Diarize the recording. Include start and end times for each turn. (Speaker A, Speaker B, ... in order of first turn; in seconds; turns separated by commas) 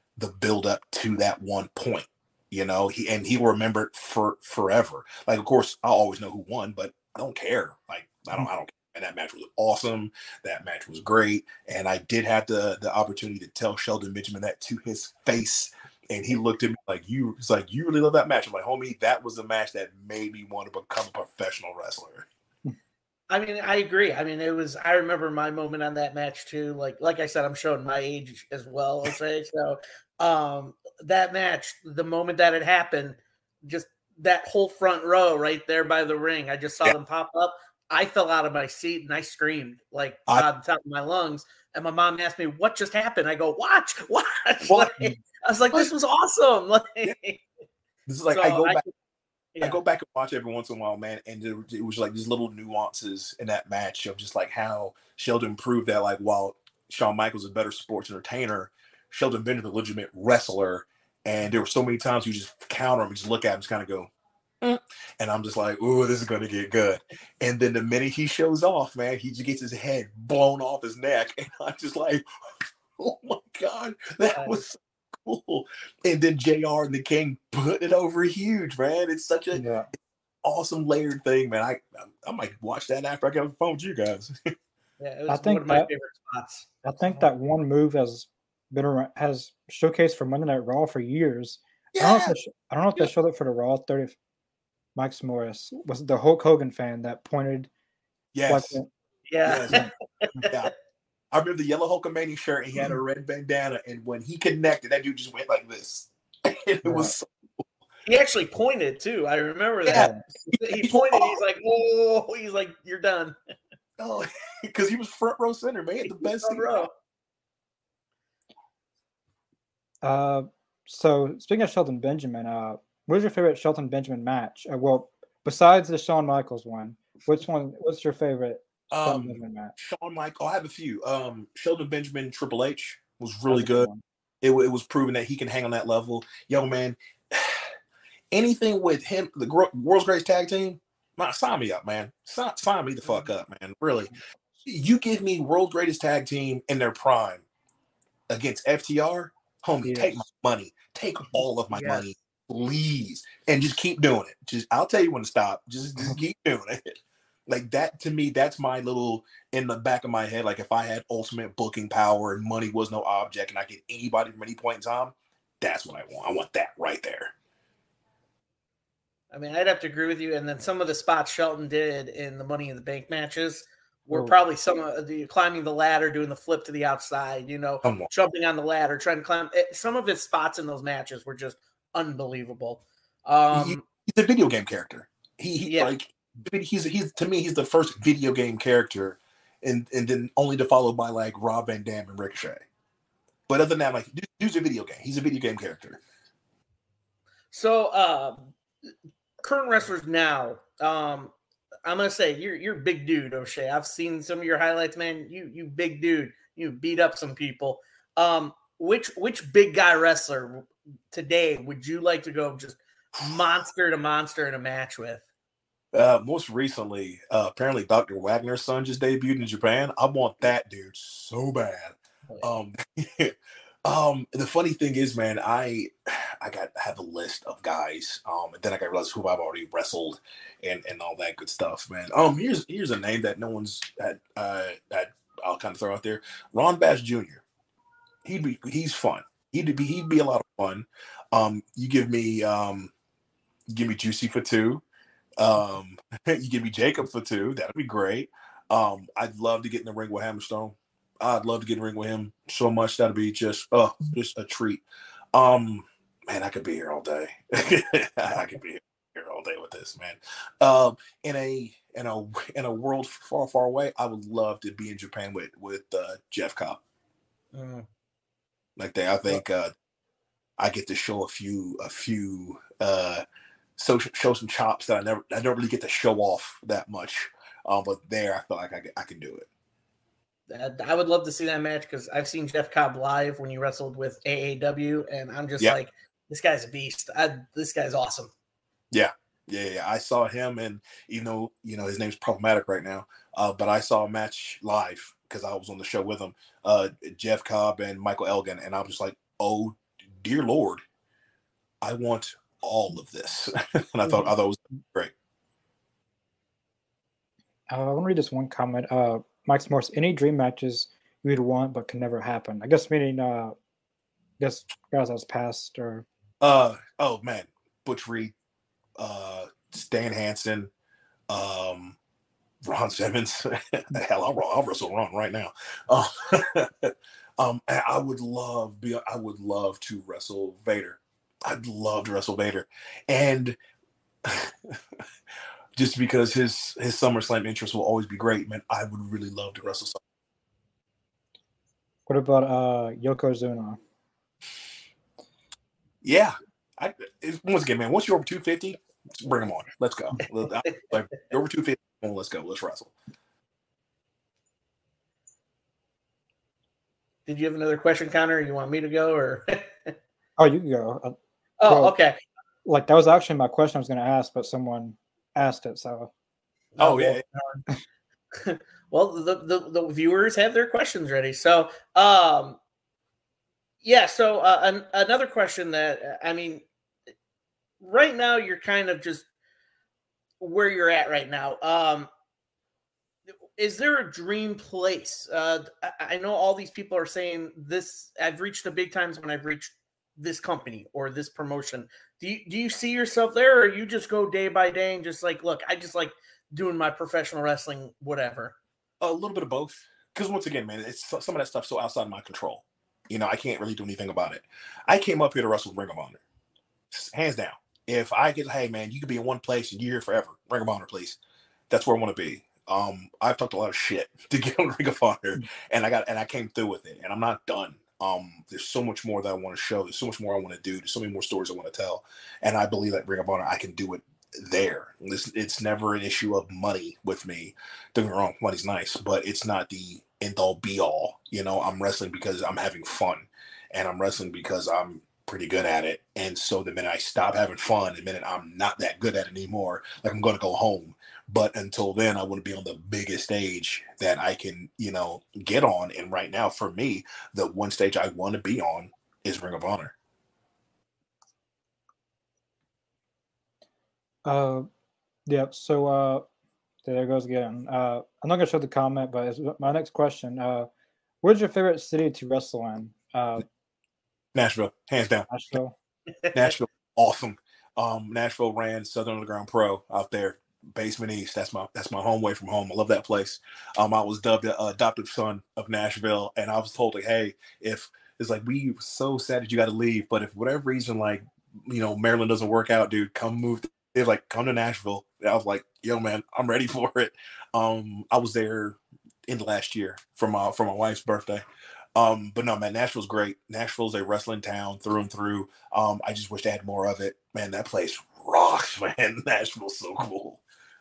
Speaker A: 0.2-22.3, Speaker B: 23.3-47.4, Speaker A: 44.6-45.0, Speaker A: 48.0-48.8, Speaker B: 48.3-48.8, Speaker A: 49.6-64.1, Speaker A: 64.6-72.2, Speaker A: 73.0-79.6, Speaker C: 79.5-79.9, Speaker A: 80.4-84.5, Speaker B: 85.0-87.3, Speaker C: 85.3-85.9, Speaker C: 86.8-94.2, Speaker A: 91.9-92.3, Speaker C: 95.0-97.7, Speaker A: 98.3-98.8, Speaker C: 98.5-98.9, Speaker B: 99.3-100.7, Speaker A: 99.4-99.8, Speaker C: 99.7-100.4, Speaker A: 101.3-107.3, Speaker C: 106.8-107.1, Speaker B: 108.0-113.3, Speaker A: 109.8-111.4, Speaker C: 109.9-110.2, Speaker A: 114.0-116.8, Speaker B: 116.1-116.9, Speaker C: 120.0-129.7, Speaker A: 128.9-133.9, Speaker C: 133.5-134.0, Speaker A: 134.4-137.7, Speaker A: 138.3-144.1, Speaker A: 144.6-147.4, Speaker A: 148.3-167.3, Speaker C: 149.8-150.2, Speaker B: 151.7-152.0, Speaker B: 169.3-183.8, Speaker A: 177.8-178.1, Speaker A: 183.5-192.6, Speaker B: 185.7-185.9, Speaker A: 193.5-196.0, Speaker B: 197.5-198.4, Speaker B: 199.4-201.3, Speaker B: 201.8-215.2, Speaker A: 215.9-237.4, Speaker A: 238.2-242.9, Speaker A: 243.7-244.8, Speaker A: 245.4-266.8, Speaker B: 267.5-267.9, Speaker A: 268.8-269.7, Speaker A: 270.6-273.2, Speaker A: 273.8-279.5, Speaker B: 280.5-288.3, Speaker A: 288.9-300.8, Speaker A: 301.8-305.1, Speaker C: 307.7-313.6, Speaker C: 314.4-316.0, Speaker A: 316.4-318.3, Speaker A: 319.0-320.7, Speaker A: 321.3-322.0, Speaker A: 322.6-333.6, Speaker A: 334.2-334.7, Speaker A: 335.8-340.0, Speaker C: 342.1-343.8, Speaker A: 346.0-352.9, Speaker B: 357.2-359.9, Speaker C: 360.4-361.1, Speaker B: 361.6-362.2, Speaker C: 361.7-361.9, Speaker C: 362.6-366.1, Speaker B: 366.7-367.6, Speaker A: 366.8-367.2, Speaker B: 368.3-372.6, Speaker B: 373.8-376.6, Speaker B: 377.8-379.2, Speaker B: 380.4-382.1, Speaker B: 383.6-398.6, Speaker A: 399.0-406.2, Speaker A: 406.9-411.2, Speaker A: 411.7-449.9, Speaker C: 454.2-454.7, Speaker C: 455.2-456.3, Speaker C: 456.8-460.7, Speaker C: 461.2-463.4, Speaker A: 464.3-465.3, Speaker C: 465.3-465.8, Speaker A: 466.3-491.4, Speaker A: 491.9-500.4